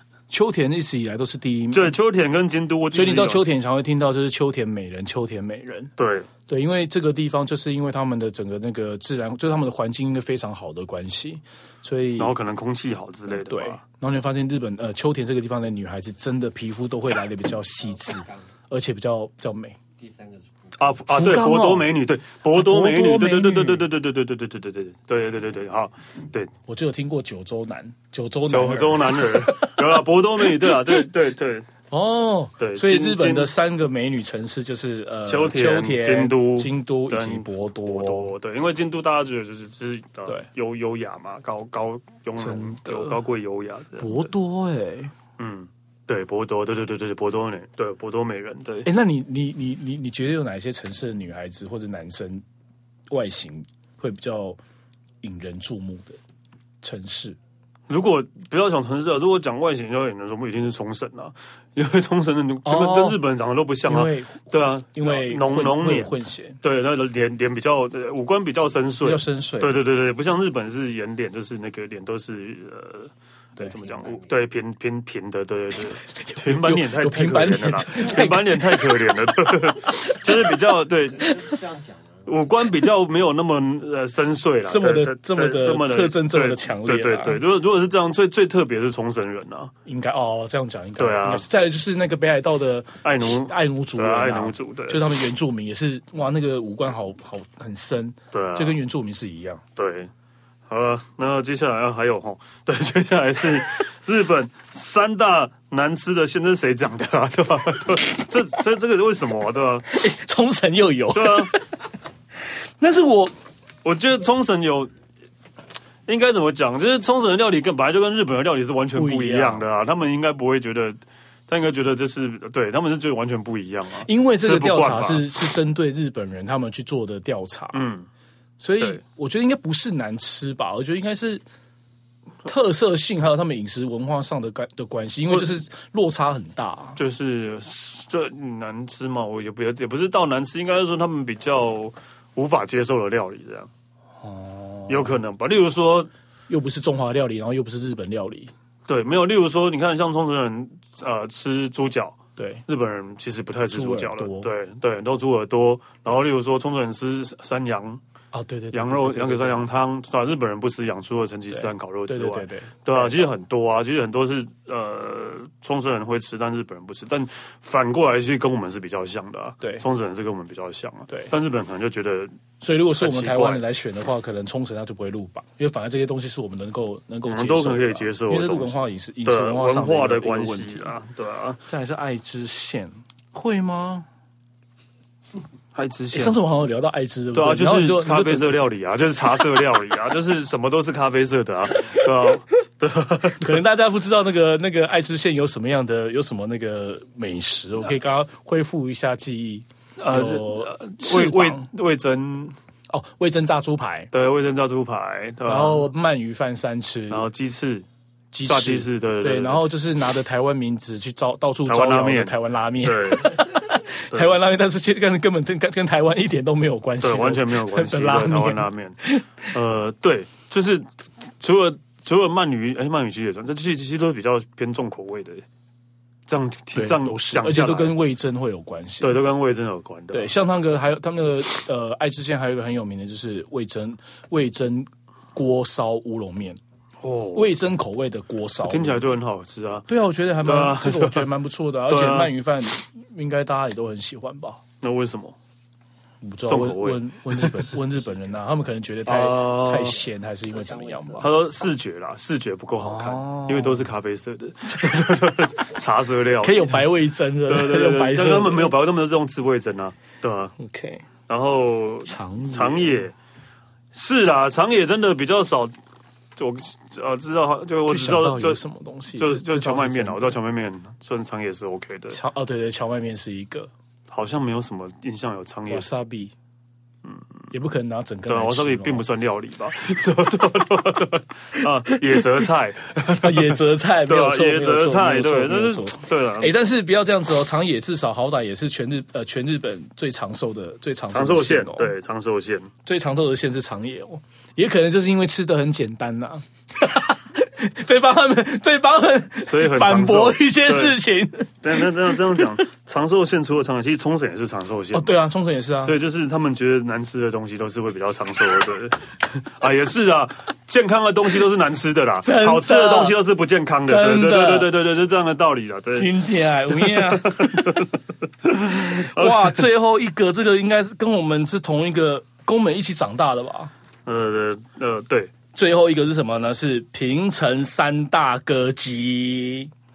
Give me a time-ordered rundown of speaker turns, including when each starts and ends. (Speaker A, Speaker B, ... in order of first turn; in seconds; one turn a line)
Speaker A: 0.3-1.9
Speaker B: 1.7-3.4
Speaker A: 2.9-5.9
Speaker B: 6.0-6.3
Speaker A: 6.5-12.3
Speaker B: 12.2-13.8
Speaker A: 13.3-19.8
Speaker C: 17.8-18.5
Speaker C: 20.0-21.1
Speaker B: 20.8-26.5
Speaker A: 21.1-21.9
Speaker A: 22.5-23.9
Speaker A: 26.7-31.0
Speaker B: 28.5-31.7
Speaker A: 31.9-38.3
Speaker B: 32.6-33.5
Speaker B: 35.2-44.3
Speaker A: 42.4-43.1
Speaker A: 44.0-45.1
Speaker B: 45.4-48.9
Speaker A: 48.9-52.4
Speaker A: 53.1-54.6
Speaker A: 55.2-56.2
Speaker A: 56.8-57.4
Speaker B: 57.9-81.3
Speaker A: 62.6-63.2
Speaker A: 63.8-66.6
Speaker A: 69.0-69.8
Speaker C: 73.6-74.5
Speaker A: 76.2-79.1
Speaker C: 81.1-82.5
Speaker B: 82.2-89.7
Speaker A: 84.6-87.4
Speaker A: 89.8-99.6
Speaker B: 91.0-91.5
Speaker B: 93.0-95.0
Speaker B: 98.3-98.8
Speaker B: 99.8-100.1
Speaker B: 100.7-109.8
Speaker A: 109.9-111.6
Speaker B: 111.1-111.5
Speaker A: 112.8-113.3
Speaker B: 113.8-114.9
Speaker B: 116.1-125.2
Speaker A: 118.9-119.7
Speaker A: 124.0-127.8
Speaker B: 127.7-128.1
Speaker A: 128.6-131.4
Speaker A: 132.4-137.0
Speaker B: 137.0-143.7
Speaker A: 144.2-145.2
Speaker B: 144.9-146.1
Speaker A: 146.5-148.5
Speaker B: 148.9-158.0
Speaker A: 152.4-152.6
Speaker A: 153.7-154.5
Speaker A: 158.3-159.7
Speaker B: 158.7-172.3
Speaker A: 161.5-163.3
Speaker A: 172.6-180.9
Speaker B: 173.0-173.6
Speaker B: 177.3-181.6
Speaker A: 181.7-184.1
Speaker B: 185.7-186.4
Speaker A: 186.1-188.6
Speaker B: 187.3-193.5
Speaker A: 193.3-201.7
Speaker B: 200.0-202.5
Speaker A: 202.9-204.1
Speaker B: 204.1-205.9
Speaker A: 205.4-207.3
Speaker B: 207.1-207.9
Speaker A: 208.3-219.4
Speaker B: 208.4-209.7
Speaker B: 211.7-213.5
Speaker B: 214.1-214.3
Speaker B: 217.0-220.9
Speaker B: 221.4-225.4
Speaker B: 226.3-228.0
Speaker A: 226.7-229.2
Speaker B: 229.0-230.3
Speaker A: 230.1-236.6
Speaker B: 237.0-237.6
Speaker A: 237.3-239.1
Speaker B: 238.6-239.9
Speaker A: 239.9-244.6
Speaker B: 240.4-241.3
Speaker B: 241.9-242.3
Speaker B: 244.8-245.4
Speaker A: 246.2-251.3
Speaker B: 246.5-247.7
Speaker B: 249.1-250.0
Speaker C: 249.7-251.3
Speaker B: 251.2-256.9
Speaker A: 252.8-253.9
Speaker A: 256.4-258.7
Speaker B: 257.4-260.5
Speaker A: 260.6-261.1
Speaker B: 261.3-263.1
Speaker A: 262.1-263.0
Speaker B: 263.9-265.8
Speaker B: 266.4-268.6
Speaker A: 267.9-270.4
Speaker B: 269.1-272.2
Speaker A: 272.1-273.7
Speaker B: 274.1-275.9
Speaker A: 275.7-276.3
Speaker A: 277.5-279.0
Speaker B: 278.3-286.5
Speaker A: 281.9-282.5
Speaker A: 283.2-291.9
Speaker B: 291.1-292.7
Speaker A: 292.9-302.6
Speaker B: 299.4-301.0
Speaker B: 301.6-305.2
Speaker A: 304.9-306.0
Speaker B: 305.8-319.6
Speaker A: 312.2-313.1
Speaker A: 313.9-314.7
Speaker A: 315.9-317.8
Speaker A: 318.5-323.7
Speaker B: 324.1-325.3
Speaker A: 325.5-329.7